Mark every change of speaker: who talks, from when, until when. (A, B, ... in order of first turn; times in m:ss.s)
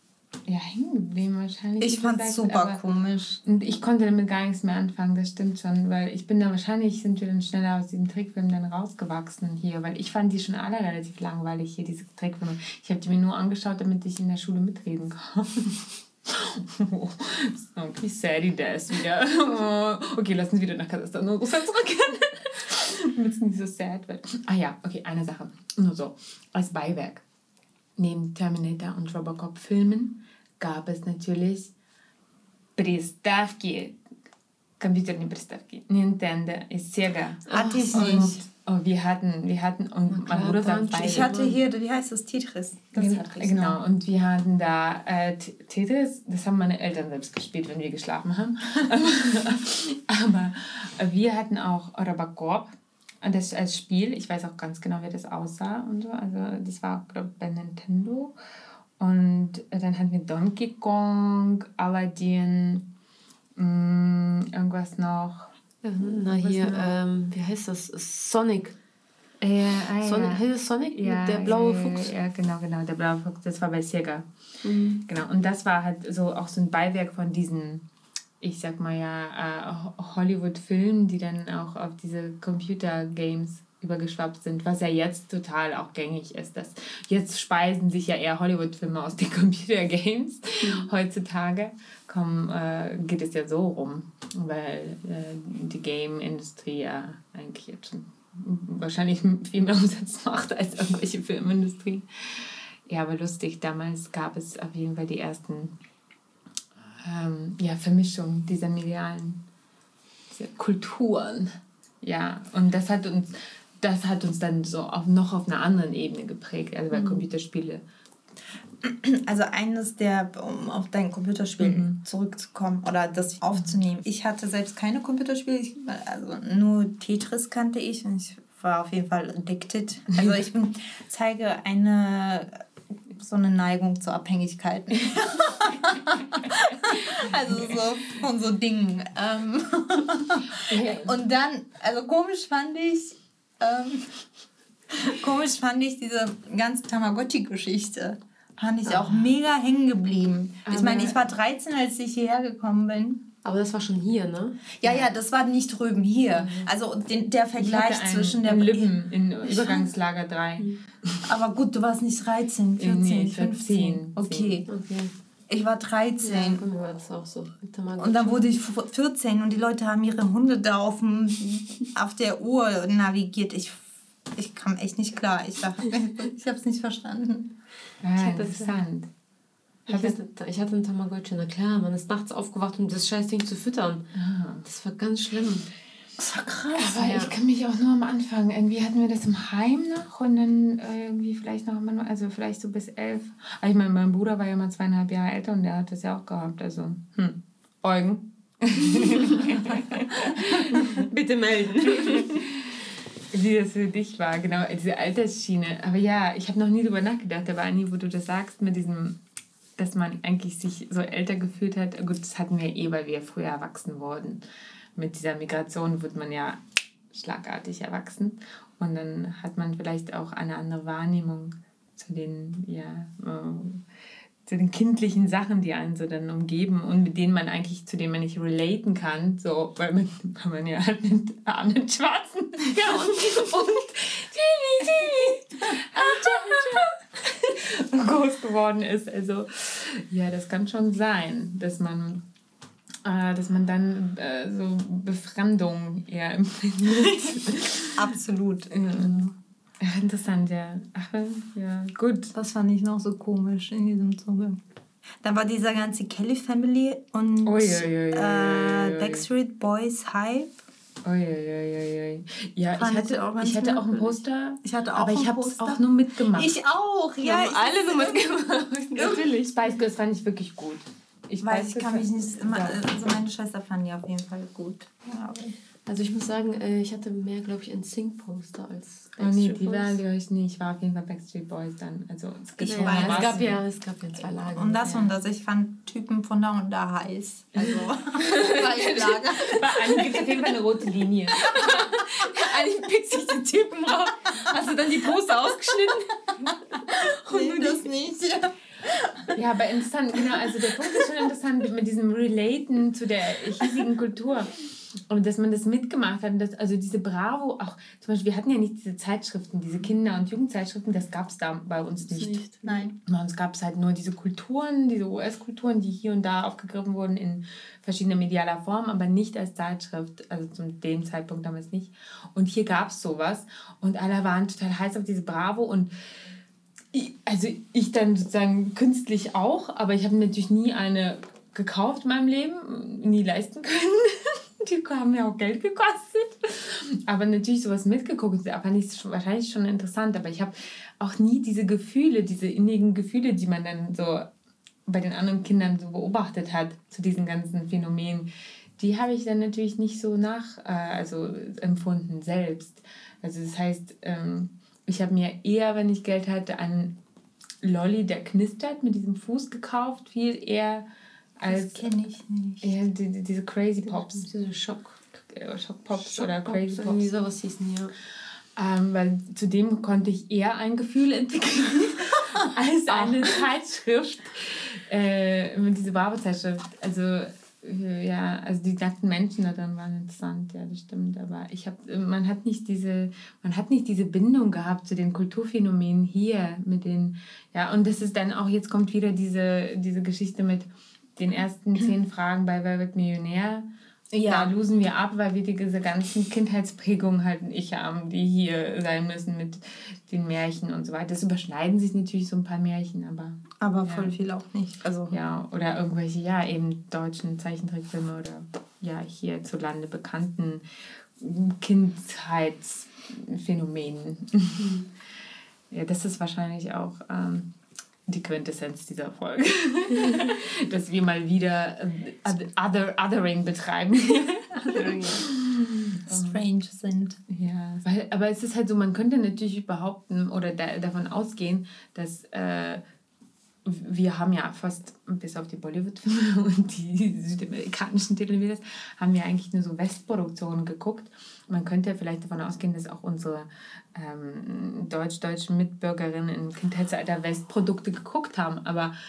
0:00.5-0:02.8 A
0:01.8-0:03.4 B
0:03.4-0:27.2 A
0:28.0-0:31.7 A
0:32.8-0:34.0 A
0:34.8-0:41.4 A
0:37.5-0:38.3 C
0:37.5-0:38.4 B
0:40.1-0:41.6 C
0:40.9-0:43.8 B
0:42.9-0:58.3 A
0:59.0-1:02.9 A
1:03.6-1:06.9 A
1:05.8-1:08.8 C
1:09.4-1:14.2 A
1:10.0-1:12.1 C
1:14.6-1:15.0 C
1:15.0-1:17.8 A
1:18.4-1:45.7 A
1:30.6-1:30.9 C
1:46.9-1:49.4 A
1:50.3-1:57.8 A
1:56.9-1:57.2 C
1:58.8-2:24.3 B
2:01.6-2:02.0 A
2:10.1-2:10.4 A
2:20.5-2:21.2 A
2:24.9-2:33.2 B
2:30.6-2:31.2 A
2:33.4-2:34.6 C
2:34.8-2:39.9 B
2:36.3-2:36.7 C
2:37.6-2:41.2 A
2:41.2-2:44.6 B
2:42.8-2:44.6 A
2:44.6-2:45.1 C
2:45.5-2:46.7 B
2:46.2-2:48.5 C
2:48.0-2:57.5 B
2:58.0-2:59.1 A
2:58.2-2:58.8 C
2:59.9-3:04.0 C
2:59.9-3:00.2 A
3:04.1-3:04.6 A
3:04.6-3:05.7 C
3:06.2-3:07.1 B
3:06.8-3:21.1 A
3:06.9-3:07.3 C
3:20.6-3:22.4 C
3:21.9-3:29.2 A
3:29.8-3:34.4 A
3:35.0-3:43.8 A
3:44.4-4:02.2 A
4:03.0-4:08.1 A
4:07.9-4:09.2 B
4:08.7-4:12.3 A
4:12.3-4:14.6 B
4:15.2-4:20.5 B
4:17.4-4:19.2 A
4:21.0-4:26.6 A
4:22.7-4:28.2 B
4:27.2-4:29.7 C
4:29.0-4:29.2 B
4:29.1-4:32.8 A
4:31.4-4:35.5 B
4:35.8-4:40.0 C
4:39.2-4:43.6 A
4:42.6-4:43.4 B
4:42.6-4:45.1 C
4:44.5-4:50.4 B
4:48.2-4:49.1 C
4:49.0-4:51.8 A
4:51.3-4:57.8 C
4:56.9-4:59.4 B
4:59.3-5:12.5 A
5:00.2-5:01.0 B
5:12.1-5:12.8 C
5:12.6-5:12.9 B
5:13.0-5:25.9 A
5:26.9-5:44.3 A
5:44.8-5:57.0 A
5:57.6-6:00.8 A
6:01.4-6:01.9 A
6:01.4-6:02.7 B
6:02.6-6:04.3 A
6:03.8-6:05.0 C
6:05.2-6:07.1 A
6:06.0-6:07.9 C
6:08.6-6:33.7 A
6:12.9-6:13.4 C
6:34.2-6:44.1 A
6:34.3-6:34.5 B
6:43.6-6:45.2 B
6:45.1-6:54.7 A
6:54.6-6:54.8 C
6:55.7-6:57.5 A
6:58.1-7:06.4 A
7:04.6-7:04.9 B
7:04.6-7:05.3 C
7:06.0-7:07.2 B
7:07.3-7:12.8 A
7:13.6-7:28.9 A